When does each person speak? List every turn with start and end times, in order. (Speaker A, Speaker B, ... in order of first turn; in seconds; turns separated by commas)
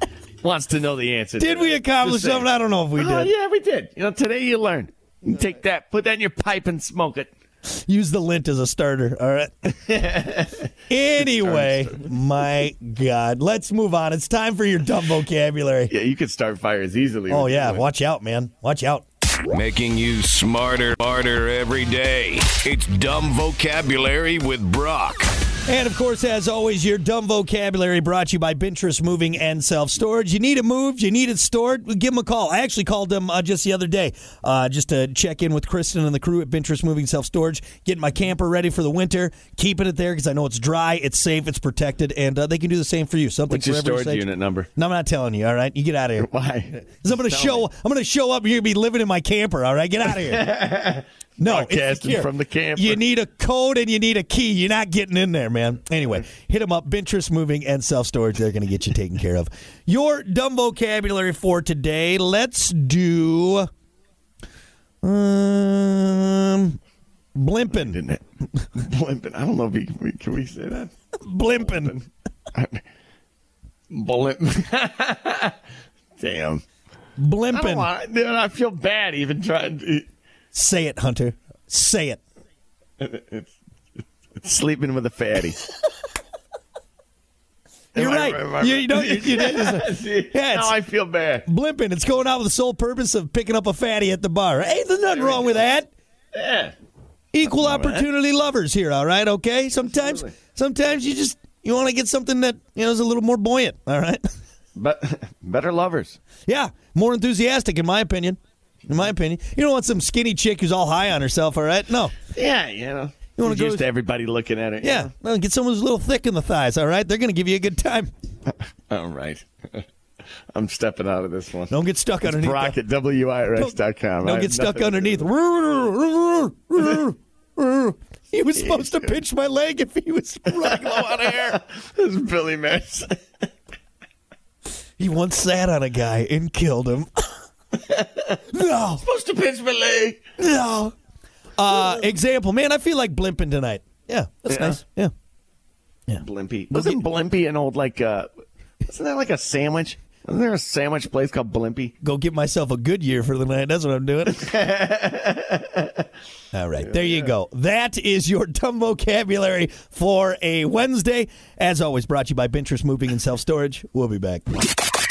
Speaker A: 0.4-7.3, Speaker B: 1.4-3.3, Speaker B: 7.7-9.7, Speaker A: 9.8-12.2, Speaker B: 10.9-15.9, Speaker A: 15.9-17.9, Speaker B: 17.3-19.1, Speaker C: 19.5-25.4, Speaker B: 25.6-44.2, Speaker A: 43.5-44.7, Speaker B: 44.8-50.5, Speaker A: 46.2-47.7, Speaker A: 50.1-53.0, Speaker B: 51.4-63.7, Speaker B: 65.0-66.8, Speaker B: 67.4-68.0, Speaker A: 67.7-71.0, Speaker B: 71.2-72.0, Speaker A: 71.6-72.8, Speaker A: 73.9-75.6, Speaker A: 76.2-76.6, Speaker B: 77.2-77.9, Speaker A: 77.5-80.1, Speaker B: 80.5-82.2, Speaker A: 83.0-83.5, Speaker A: 84.4-85.7, Speaker B: 87.9-90.7, Speaker A: 88.0-91.5, Speaker B: 91.5-95.9, Speaker A: 95.1-95.6, Speaker A: 96.3-96.8, Speaker B: 97.3-104.2, Speaker A: 97.4-98.1, Speaker A: 99.8-100.3, Speaker A: 104.8-106.2, Speaker B: 106.5-112.1, Speaker A: 112.3-115.1, Speaker B: 113.4-113.9, Speaker B: 114.8-118.1, Speaker A: 118.9-119.9, Speaker A: 120.5-125.3, Speaker B: 121.7-122.8, Speaker B: 123.6-131.6, Speaker A: 128.6-129.2, Speaker A: 130.5-133.2, Speaker B: 135.0-137.3, Speaker A: 137.8-138.4, Speaker B: 138.5-139.0, Speaker A: 139.0-140.2, Speaker B: 140.4-140.9, Speaker B: 141.6-145.1, Speaker A: 144.5-144.8, Speaker B: 146.1-147.0, Speaker A: 146.2-148.3, Speaker A: 148.8-151.9, Speaker B: 152.0-154.5, Speaker A: 154.3-156.1, Speaker B: 156.5-164.5, Speaker A: 156.8-157.3